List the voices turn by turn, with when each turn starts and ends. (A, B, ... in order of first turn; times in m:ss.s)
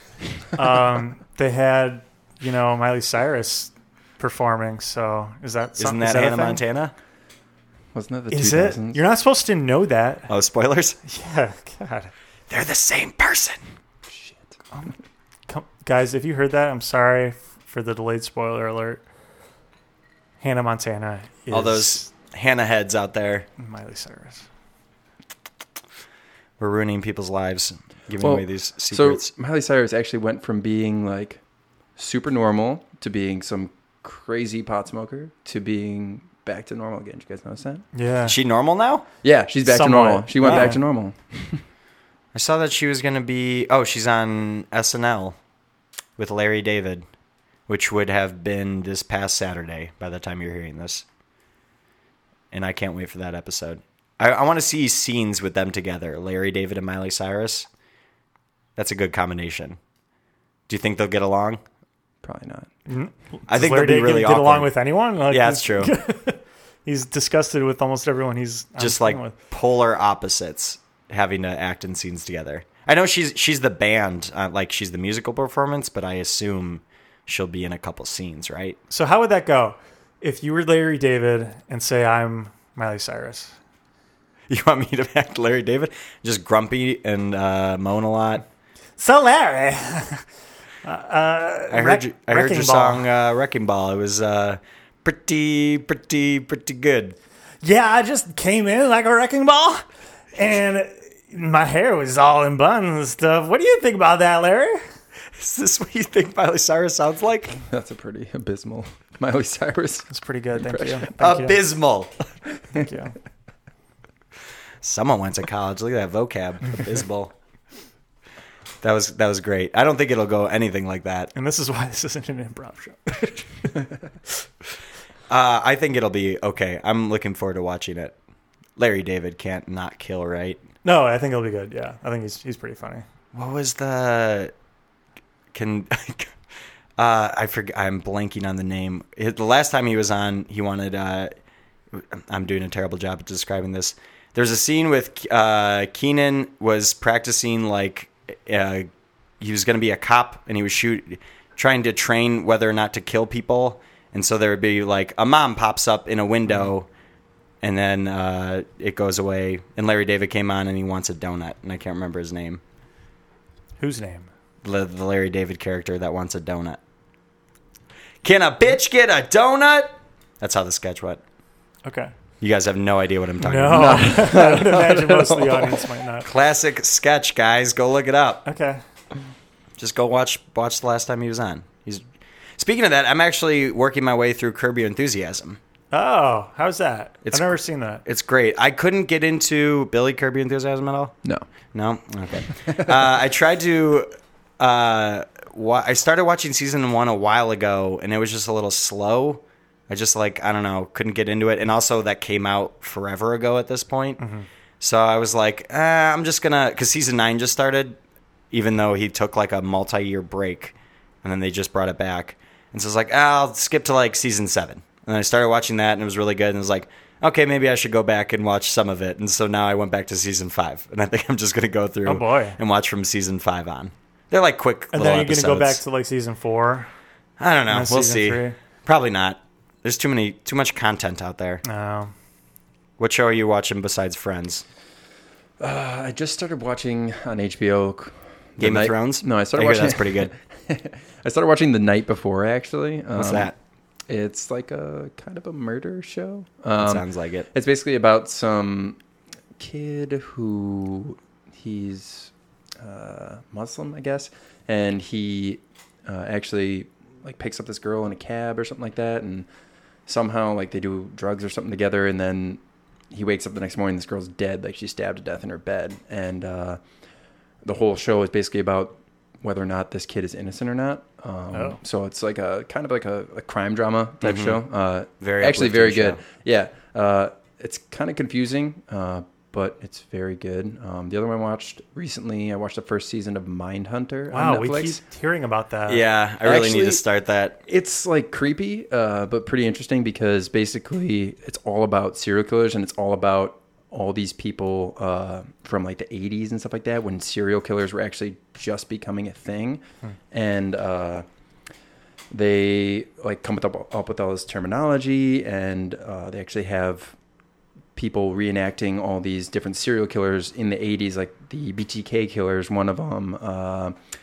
0:00.5-0:06.6 A
0:05.8-0:06.9 B
0:07.9-0:09.0 C
0:08.3-0:10.3 A
0:10.3-0:11.0 B
0:11.1-0:12.1 A
0:12.5-0:13.6 B
0:14.1-0:14.6 C
0:15.5-0:19.0 A
0:20.4-0:22.1 A
0:21.5-0:23.5 B
0:23.6-0:24.4 A
0:26.6-0:29.3 B
0:28.2-0:31.4 C
0:32.0-0:37.9 C
0:38.0-0:38.4 A
0:38.3-0:39.0 B
0:39.2-0:41.6 C
0:39.6-0:40.8 A
0:42.3-0:45.4 B
0:46.2-0:47.0 B
0:47.7-0:51.0 B
0:52.5-0:57.7 B
0:58.8-0:59.8 B
1:00.7-1:01.6 B
1:02.2-1:02.7 C
1:02.9-1:09.4 A
1:03.5-1:04.7 B
1:05.3-1:05.9 B
1:08.8-1:18.8 B
1:18.9-1:23.5 A
1:24.5-1:28.4 B
1:29.0-1:30.2 A
1:30.8-1:33.1 A
1:31.7-1:37.2 B
1:37.6-1:44.8 A
1:45.4-1:47.6 B
1:47.5-1:51.1 C
1:50.1-1:51.6 A
1:51.2-1:52.2 B
1:52.7-1:53.2 A
1:54.8-1:57.3 B
1:58.8-2:01.3 B
2:01.4-2:03.5 A
2:05.3-2:08.2 B
2:08.8-2:10.6 B
2:10.8-2:13.0 A
2:13.3-2:14.5 B
2:15.5-2:16.3 B
2:17.0-2:21.3 B
2:21.9-2:36.9 B
2:37.6-2:42.6 B
2:43.8-2:44.3 A
2:44.6-2:46.8 B
2:48.2-2:51.2 B
2:51.8-2:52.1 A
2:52.4-2:54.2 B
2:53.4-2:56.3 A
2:53.7-2:55.8 C
2:56.2-2:58.4 B
2:58.5-2:58.8 A
2:59.8-3:02.0 B
3:02.6-3:05.6 B
3:05.9-3:08.0 A
3:07.3-3:11.2 B
3:11.7-3:24.2 B
3:24.2-3:24.5 A
3:24.8-3:28.0 B
3:28.5-3:45.8 B
3:42.1-3:42.6 A
3:44.9-3:46.9 A
3:47.4-3:51.6 B
3:47.7-3:48.6 A
3:51.6-3:52.1 A
3:53.0-3:54.6 B
3:55.6-4:03.5 C
3:58.6-4:00.3 B
4:03.2-4:03.6 B
4:04.1-4:09.0 C
4:06.8-4:07.5 B
4:09.6-4:19.5 C
4:20.1-4:26.8 C
4:27.6-4:45.0 C
4:31.5-4:31.8 A
4:34.2-4:34.6 B
4:35.2-4:36.2 B
4:44.3-4:46.0 A
4:45.9-4:47.6 B
4:46.4-4:47.0 C
4:47.7-5:01.2 C
5:02.3-5:07.2 C
5:08.0-5:14.0 C